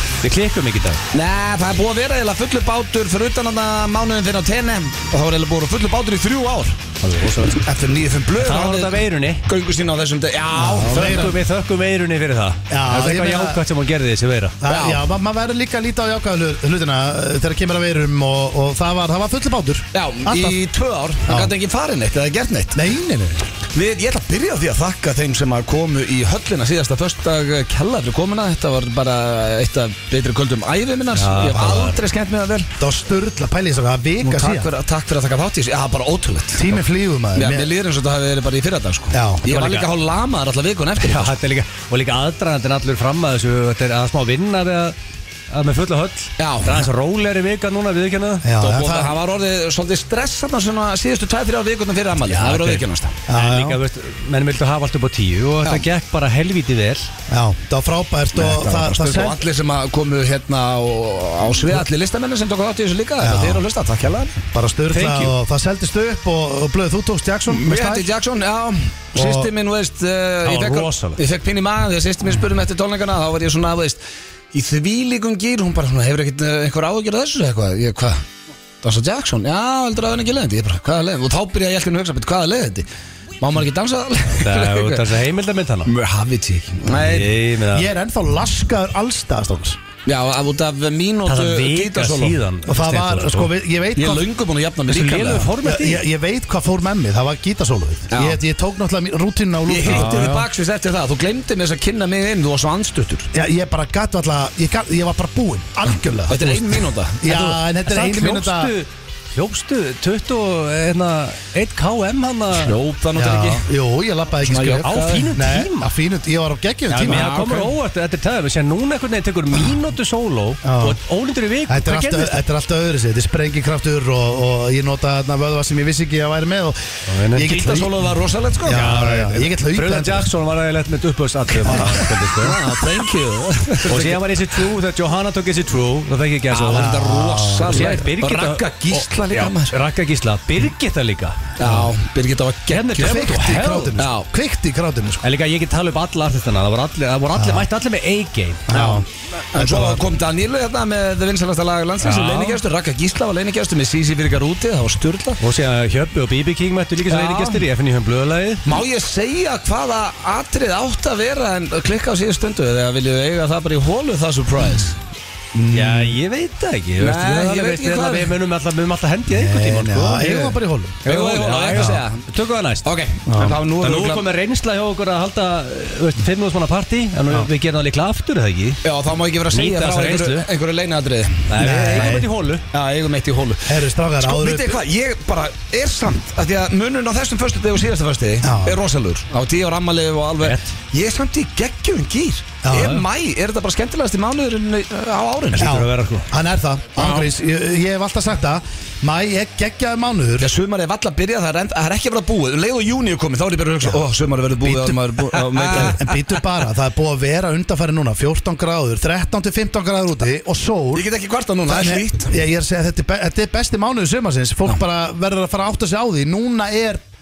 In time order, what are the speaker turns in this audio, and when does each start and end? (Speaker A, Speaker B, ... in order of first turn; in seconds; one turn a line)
Speaker A: 0.2-1.0
Speaker B: 1.1-6.8
Speaker A: 7.0-7.5
Speaker B: 7.5-11.4
Speaker A: 8.4-9.5
Speaker C: 10.6-11.3
Speaker A: 10.9-14.6
Speaker C: 12.7-13.6
Speaker C: 14.6-20.6
Speaker B: 14.7-15.0
Speaker B: 19.9-22.8
Speaker C: 21.3-21.5
Speaker C: 22.7-23.4
Speaker B: 23.7-32.7
Speaker A: 31.1-32.0
Speaker C: 32.8-34.7
Speaker B: 34.2-36.8
Speaker C: 36.5-37.7
Speaker B: 37.3-41.3
Speaker C: 39.1-39.4
Speaker A: 39.5-39.9
Speaker A: 41.0-45.0
Speaker A: 45.5-48.5
Speaker B: 46.4-46.9
Speaker C: 48.4-49.1
Speaker B: 48.6-53.1
Speaker A: 52.2-57.1
Speaker C: 53.3-53.8
Speaker C: 57.3-59.4
Speaker B: 58.3-64.4
Speaker C: 63.2-63.6
Speaker C: 64.5-68.1
Speaker A: 64.9-65.3
Speaker B: 67.5-74.0
Speaker C: 69.2-69.5
Speaker A: 70.5-71.2
Speaker B: 74.5-78.2
Speaker B: 78.8-82.9
Speaker B: 83.4-85.1
Speaker A: 84.3-85.9
Speaker B: 85.9-87.3
Speaker A: 86.9-87.9
Speaker C: 87.7-89.8
Speaker B: 90.1-92.4
Speaker A: 91.3-93.5
Speaker C: 92.7-94.3
Speaker B: 94.0-95.5
Speaker A: 94.9-96.0
Speaker C: 95.6-100.3
Speaker B: 98.1-98.4
Speaker B: 99.7-103.3
Speaker A: 99.9-100.5
Speaker C: 103.3-108.7
Speaker B: 106.3-107.6
Speaker A: 107.9-112.8
Speaker B: 112.5-113.7
Speaker C: 113.2-117.6
Speaker B: 114.5-115.3
Speaker A: 114.8-115.9
Speaker A: 116.9-122.4
Speaker B: 117.0-117.7
Speaker C: 120.6-121.0
Speaker C: 121.7-128.1
Speaker A: 127.1-127.5
Speaker B: 127.4-128.8
Speaker C: 128.7-130.3
Speaker A: 128.7-132.8
Speaker C: 131.7-132.1
Speaker B: 131.7-134.3
Speaker A: 133.9-136.9
Speaker B: 136.5-139.8
Speaker C: 136.7-138.0
Speaker A: 137.7-141.5
Speaker B: 141.6-143.3
Speaker A: 142.7-144.0
Speaker C: 143.0-145.3
Speaker B: 144.0-144.3
Speaker A: 145.2-148.9
Speaker C: 147.3-147.7
Speaker C: 148.7-150.0
Speaker B: 148.7-149.0
Speaker B: 149.5-155.4
Speaker A: 152.0-152.6
Speaker A: 155.4-158.8
Speaker B: 157.1-157.6
Speaker B: 158.7-165.0
Speaker C: 165.5-166.2
Speaker A: 165.7-172.9
Speaker B: 167.0-168.3
Speaker C: 169.3-171.0
Speaker B: 171.1-172.2
Speaker B: 172.8-174.2
Speaker C: 173.3-173.6
Speaker A: 173.8-178.8
Speaker B: 178.8-182.1
Speaker A: 179.5-180.5
Speaker A: 181.5-182.6
Speaker C: 181.6-182.3
Speaker B: 182.7-195.8
Speaker C: 183.7-184.8
Speaker C: 188.4-188.8
Speaker A: 190.4-190.8
Speaker C: 192.6-193.0
Speaker A: 195.6-196.3
Speaker C: 195.6-200.5
Speaker B: 197.0-197.3
Speaker B: 200.4-206.1
Speaker C: 204.6-211.1
Speaker B: 210.9-212.4
Speaker C: 211.7-217.0